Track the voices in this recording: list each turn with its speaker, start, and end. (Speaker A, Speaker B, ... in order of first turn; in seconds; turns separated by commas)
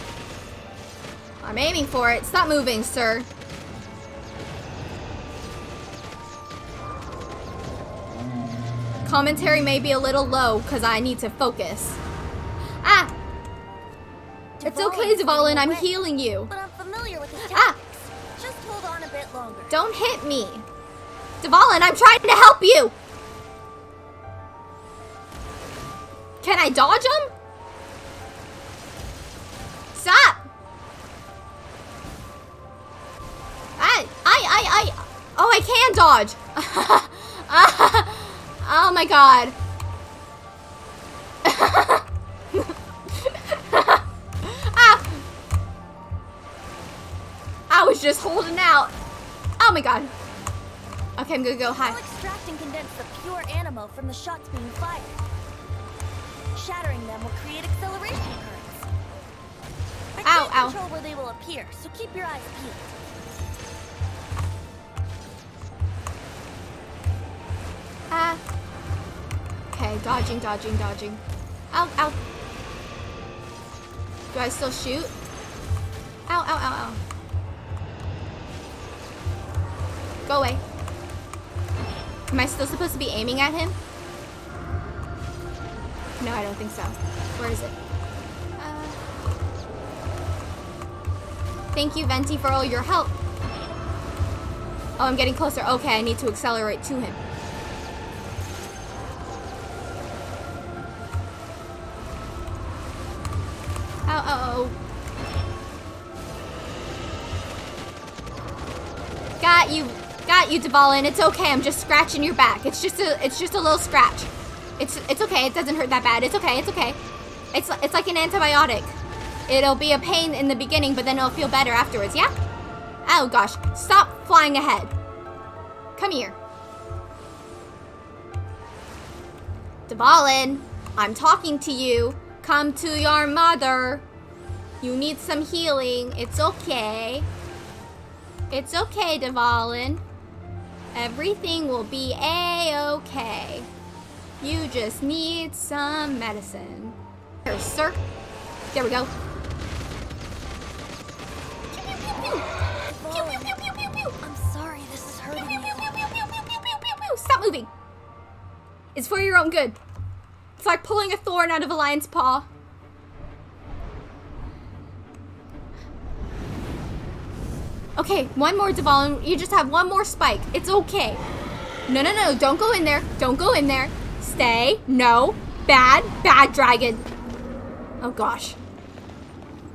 Speaker A: 1.4-3.3, Speaker A: 9.0-12.0, Speaker A: 12.8-13.1, Speaker B: 14.6-15.9, Speaker A: 14.6-16.5, Speaker B: 16.5-19.8, Speaker A: 17.4-17.8, Speaker A: 19.7-20.6, Speaker A: 21.4-22.9, Speaker A: 26.4-27.3, Speaker A: 29.9-30.4, Speaker A: 33.8-39.5, Speaker A: 41.4-45.2, Speaker A: 47.7-48.9, Speaker A: 49.6-50.1, Speaker A: 51.2-52.0, Speaker B: 51.6-55.2, Speaker B: 56.5-58.9, Speaker B: 60.1-63.0, Speaker A: 60.2-60.8, Speaker A: 68.1-68.4, Speaker A: 69.7-72.2, Speaker A: 74.3-75.1, Speaker A: 76.3-77.0, Speaker A: 80.2-80.6, Speaker A: 82.3-83.8, Speaker A: 86.2-87.8, Speaker A: 88.6-89.0, Speaker A: 91.7-93.2, Speaker A: 95.0-97.2, Speaker A: 104.1-104.8, Speaker A: 109.4-117.0, Speaker A: 117.5-119.0, Speaker A: 119.5-122.3, Speaker A: 123.0-124.9, Speaker A: 126.0-126.4, Speaker A: 129.9-134.0, Speaker A: 134.8-137.3, Speaker A: 138.5-140.0, Speaker A: 140.9-143.7, Speaker A: 144.4-148.0, Speaker A: 148.7-149.1, Speaker A: 151.9-152.5, Speaker B: 152.8-153.6, Speaker A: 153.1-154.2, Speaker B: 154.2-155.9, Speaker A: 155.3-157.7, Speaker A: 158.9-159.8, Speaker A: 160.6-162.5, Speaker A: 168.0-171.2, Speaker A: 171.9-177.0, Speaker A: 178.0-178.6